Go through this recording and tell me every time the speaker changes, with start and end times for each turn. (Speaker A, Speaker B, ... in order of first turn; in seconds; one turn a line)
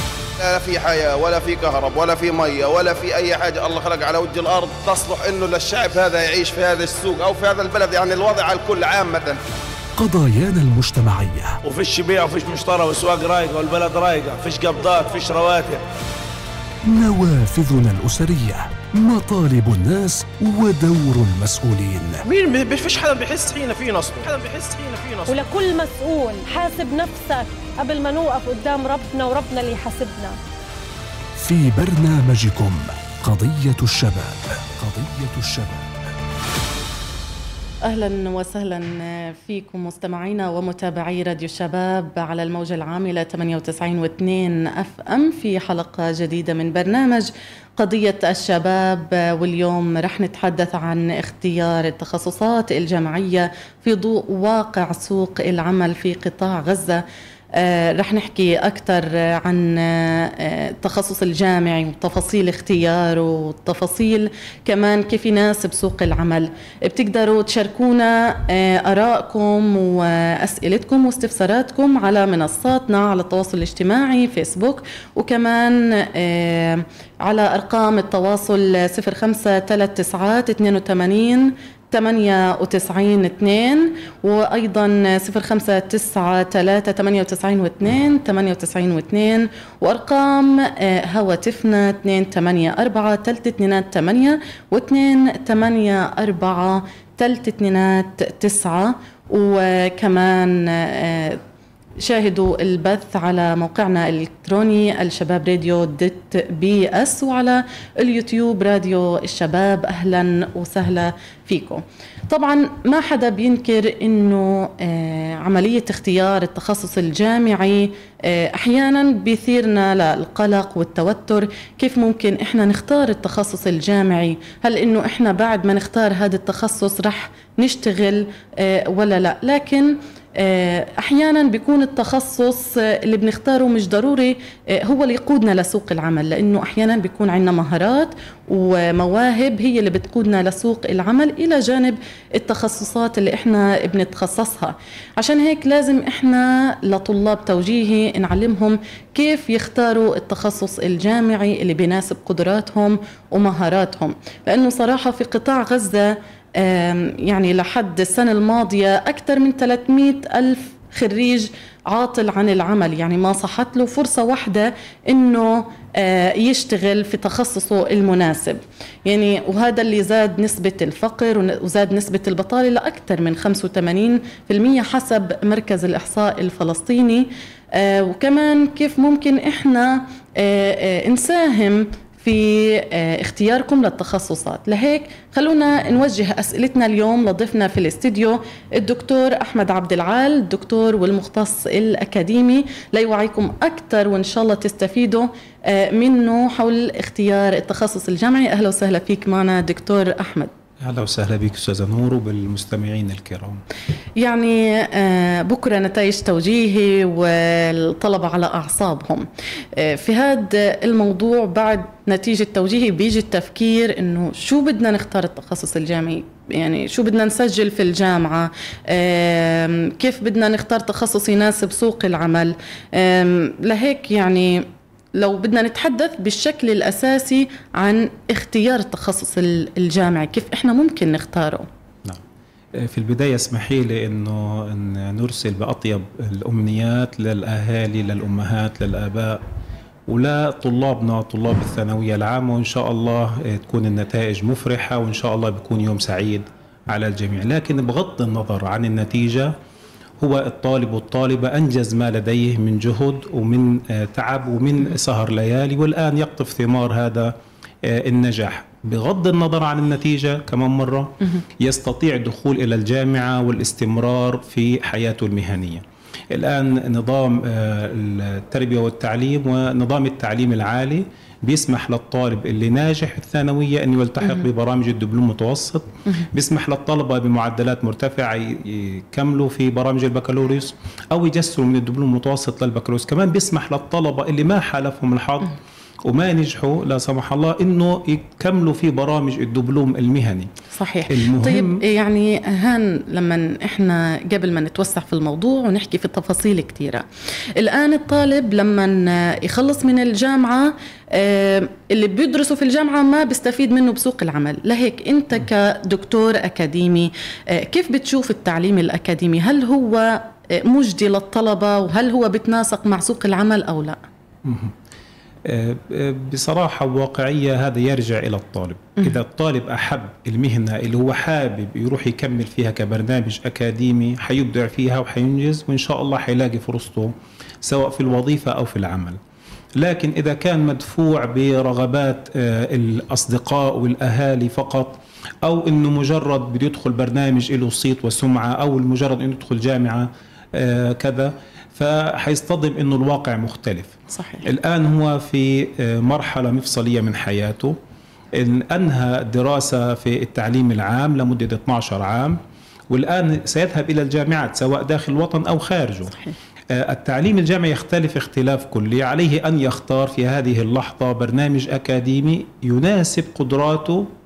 Speaker A: 0.4-9.4
Speaker B: 10.0-11.6
Speaker C: 11.6-15.8
Speaker B: 16.8-22.2
Speaker C: 22.2-25.4
Speaker D: 25.3-30.4
Speaker B: 31.4-36.1
Speaker E: 37.8-101.4
Speaker E: 102.0-200.5
Speaker F: 200.8-203.6
Speaker E: 204.2-231.7
Speaker F: 232.7-239.4
Speaker F: 240.1-249.5
Speaker F: 250.2-290.5
Speaker E: 290.7-297.0
Speaker F: 291.1-291.8
Speaker E: 297.6-314.0
Speaker F: 314.4-314.7
Speaker F: 315.4-329.2
Speaker F: 329.8-347.8
Speaker E: 344.1-344.5
Speaker F: 348.3-352.4
Speaker F: 352.9-356.1
Speaker F: 356.7-364.1